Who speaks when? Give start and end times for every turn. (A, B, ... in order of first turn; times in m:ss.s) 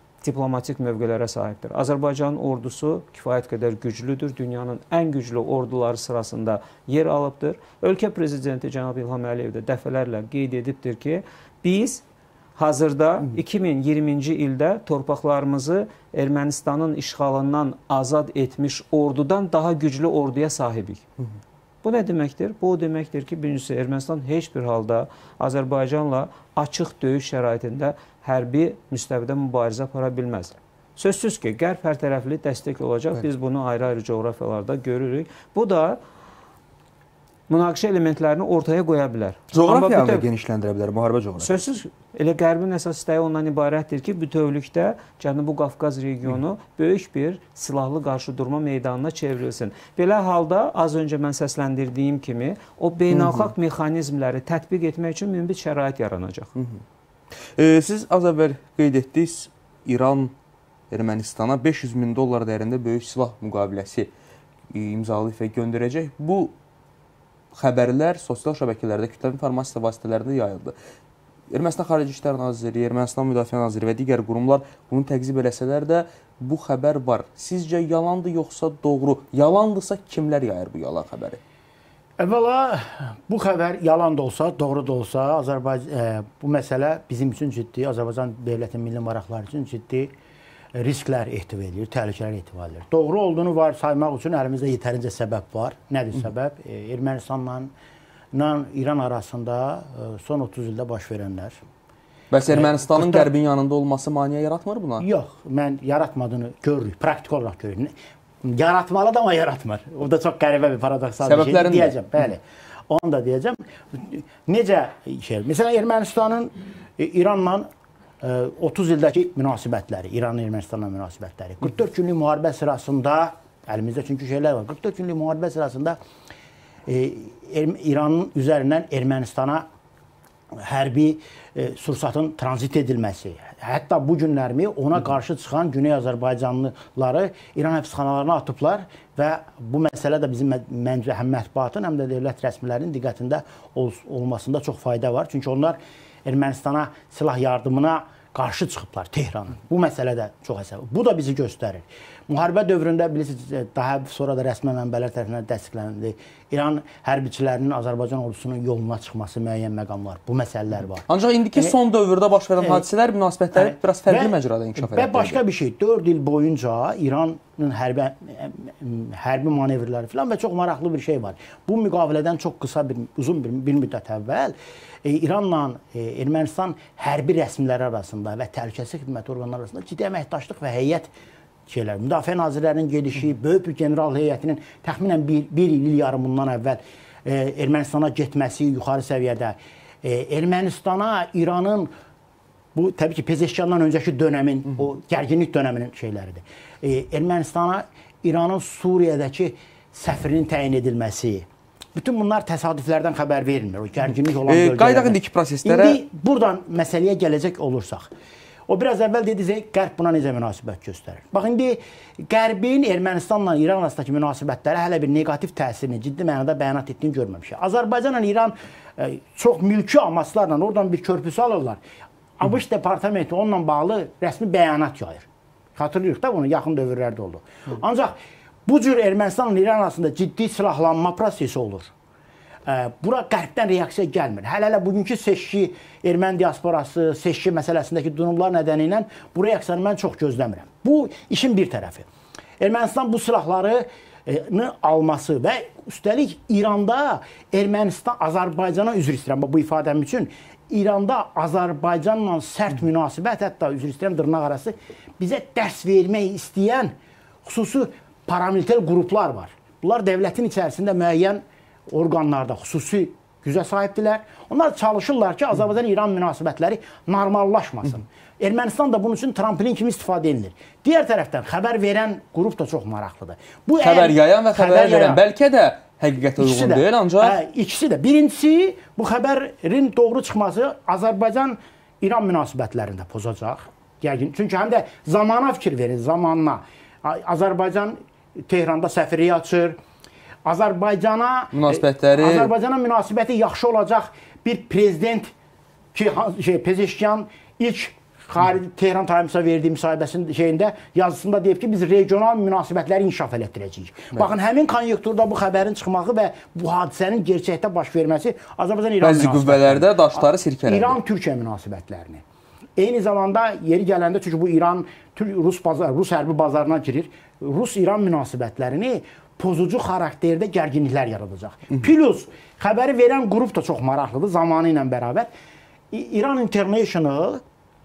0:00.2-0:12.0 A
0:12.6-0:21.0 A
0:21.8-0:36.0 A
0:37.5-0:40.2 A
0:39.5-0:41.6 B
0:41.4-0:56.5 A
0:53.1-0:53.5 B
0:56.6-0:56.8 B
0:57.6-1:00.3 B
1:00.9-1:04.1 B
1:04.7-1:06.5 B
1:07.5-1:10.7 B
1:11.5-1:21.4 B
1:22.2-1:30.1 C
1:30.7-1:37.7 C
1:38.3-1:41.6 C
1:42.3-1:45.0 B
1:42.5-1:43.3 C
1:45.0-1:47.9 C
1:48.4-1:57.7 C
1:51.2-1:51.9 B
1:58.2-2:06.0 C
2:06.8-2:09.6 C
2:10.5-2:41.7 C
2:41.1-2:45.4 B
2:43.5-3:01.1 C
3:01.7-3:11.9 C
3:12.7-3:28.1 C
3:24.5-3:26.0 B
3:28.7-3:41.8 C
3:42.4-3:48.1 C
3:48.6-3:51.9 C
3:52.6-4:02.1 C
4:02.6-4:16.9 C
4:17.4-4:35.2 C
4:33.8-4:37.4 B
4:36.4-4:49.8 C
4:50.4-4:55.3 C
4:51.5-4:52.5 B
4:55.9-5:12.2 C
5:09.0-5:11.0 B
5:12.8-5:25.3 C
5:25.9-5:27.4 C